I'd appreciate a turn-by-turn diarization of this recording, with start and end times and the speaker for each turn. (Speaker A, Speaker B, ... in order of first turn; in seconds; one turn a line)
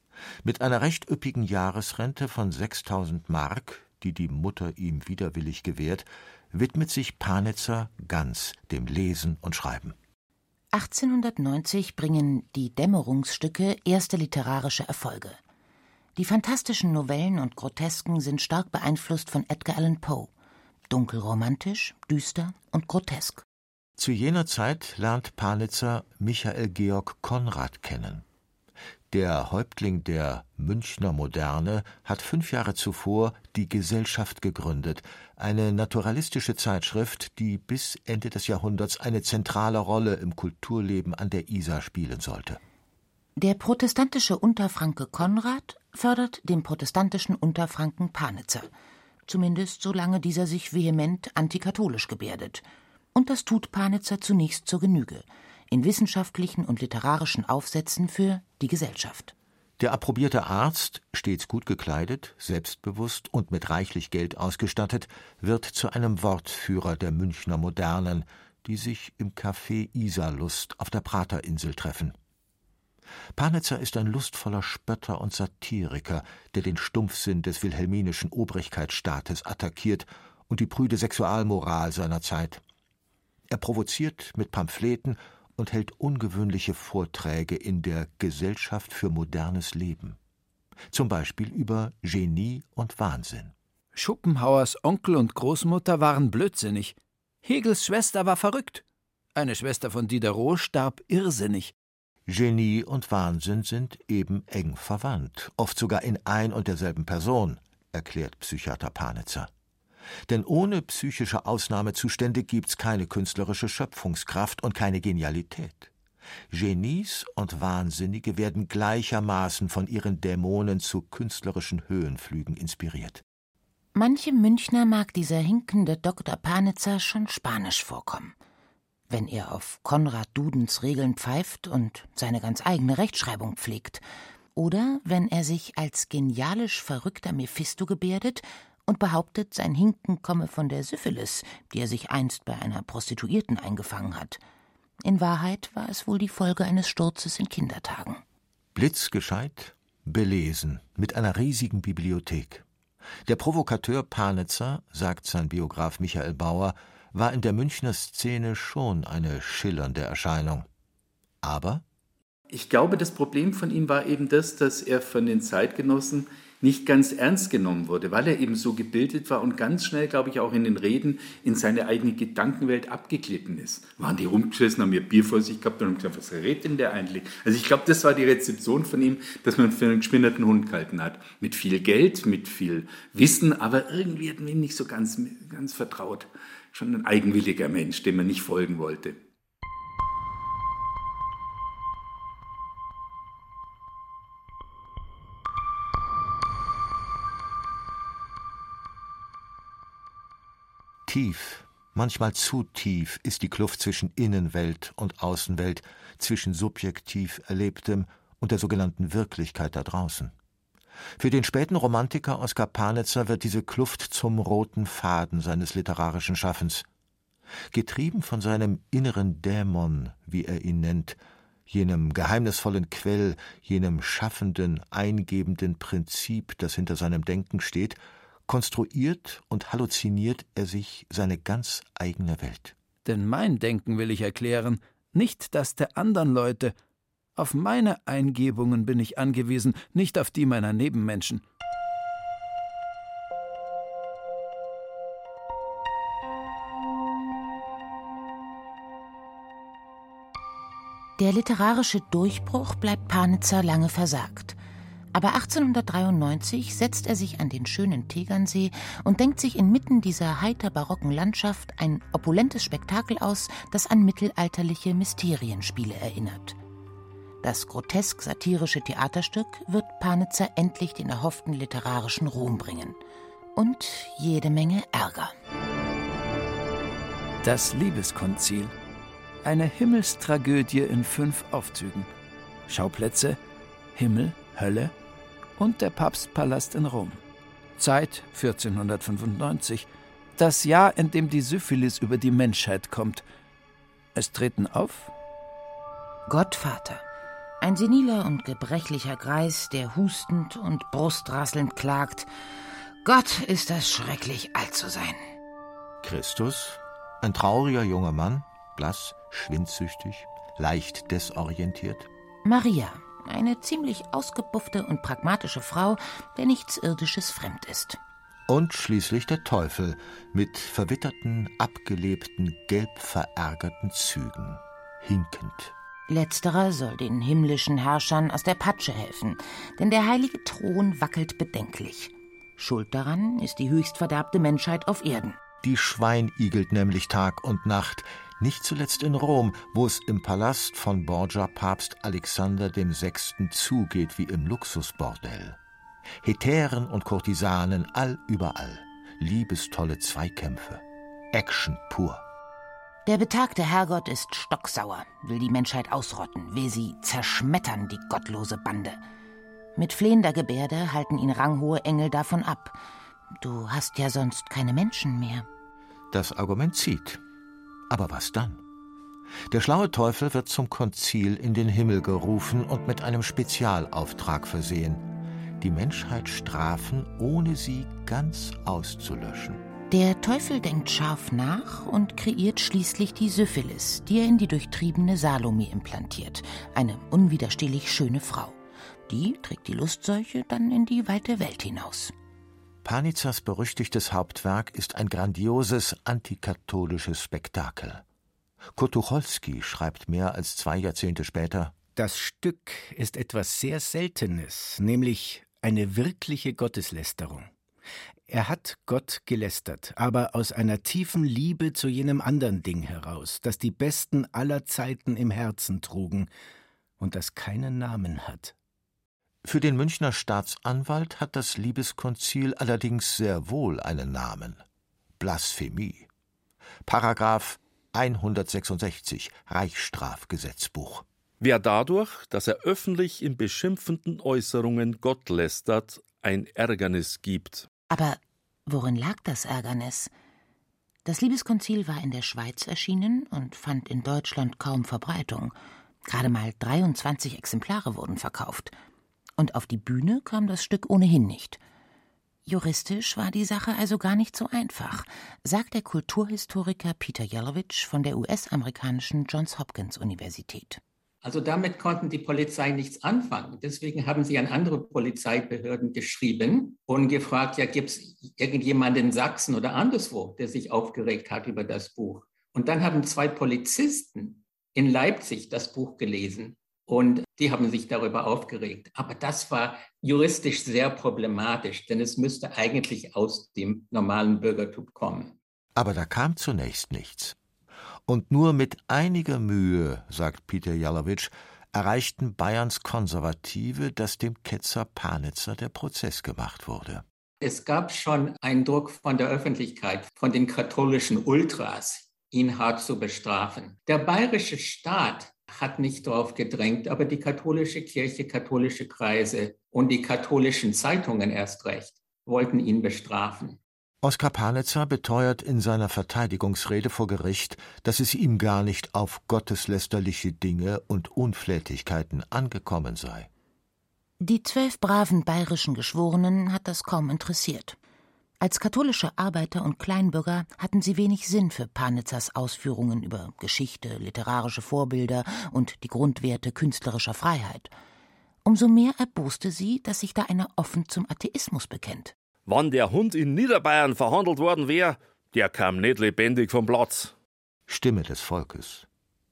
Speaker A: 0.4-10.0
Speaker B: 10.7-15.4
Speaker B: 16.2-20.3
Speaker B: 20.9-23.4
Speaker A: 24.0-28.2
Speaker A: 29.1-42.6
Speaker B: 43.4-48.7
Speaker B: 49.3-59.3
Speaker A: 59.8-72.2
Speaker A: 73.3-82.6
Speaker A: 83.5-90.2
Speaker A: 90.9-93.5
Speaker C: 93.9-98.8
Speaker C: 99.3-101.7
Speaker A: 102.3-109.5
Speaker A: 110.3-115.9
Speaker A: 116.5-123.2
Speaker B: 124.0-128.3
Speaker B: 129.1-134.0
Speaker B: 134.6-144.4
Speaker B: 145.0-148.2
Speaker A: 148.8-152.7
Speaker A: 153.3-160.7
Speaker A: 161.4-161.8
Speaker D: 162.5-189.2
Speaker A: 201.1-210.3
Speaker A: 211.2-216.9
Speaker A: 217.7-232.8
Speaker C: 233.1-236.7
Speaker C: 237.4-241.4
Speaker B: 251.2-254.6
Speaker B: 255.1-266.6
Speaker B: 267.4-273.0
Speaker B: 273.6-275.3
Speaker C: 277.4-278.7
Speaker C: 279.4-282.1
Speaker C: 282.7-283.4
Speaker C: 283.9-284.9
Speaker C: 285.6-287.2
Speaker C: 287.8-293.2
Speaker C: 294.1-295.1
Speaker B: 296.3-297.0
Speaker B: 297.6-302.3
Speaker B: 303.0-305.2
Speaker A: 306.0-312.1
Speaker B: 312.4-318.0
Speaker A: 318.5-325.8
Speaker B: 326.1-335.4
Speaker A: 335.6-345.6
Speaker A: 346.2-352.2
Speaker B: 353.1-359.0
Speaker B: 359.8-362.8
Speaker B: 363.4-365.5
Speaker A: 366.1-367.2
Speaker A: 367.9-368.6
Speaker A: 369.5-375.1
Speaker A: 375.6-379.6
Speaker B: 379.9-392.1
Speaker A: 392.8-398.0
Speaker A: 398.8-401.8
Speaker E: 402.0-407.5
Speaker E: 408.3-416.3
Speaker E: 417.0-418.6
Speaker A: 419.4-424.6
Speaker A: 425.2-426.1
Speaker A: 426.9-431.1
Speaker F: 431.4-437.7
Speaker B: 437.9-440.1
Speaker B: 441.1-445.5
Speaker B: 446.1-448.7
Speaker B: 449.4-451.6
Speaker B: 452.5-460.8
Speaker G: 461.2-485.4
Speaker A: 485.8-487.4
Speaker A: 488.1-497.1
Speaker G: 497.4-513.6
Speaker A: 514.0-523.3
Speaker B: 524.2-527.8
Speaker B: 528.4-537.7
Speaker B: 538.5-542.1
Speaker F: 542.5-547.1
Speaker A: 547.7-548.9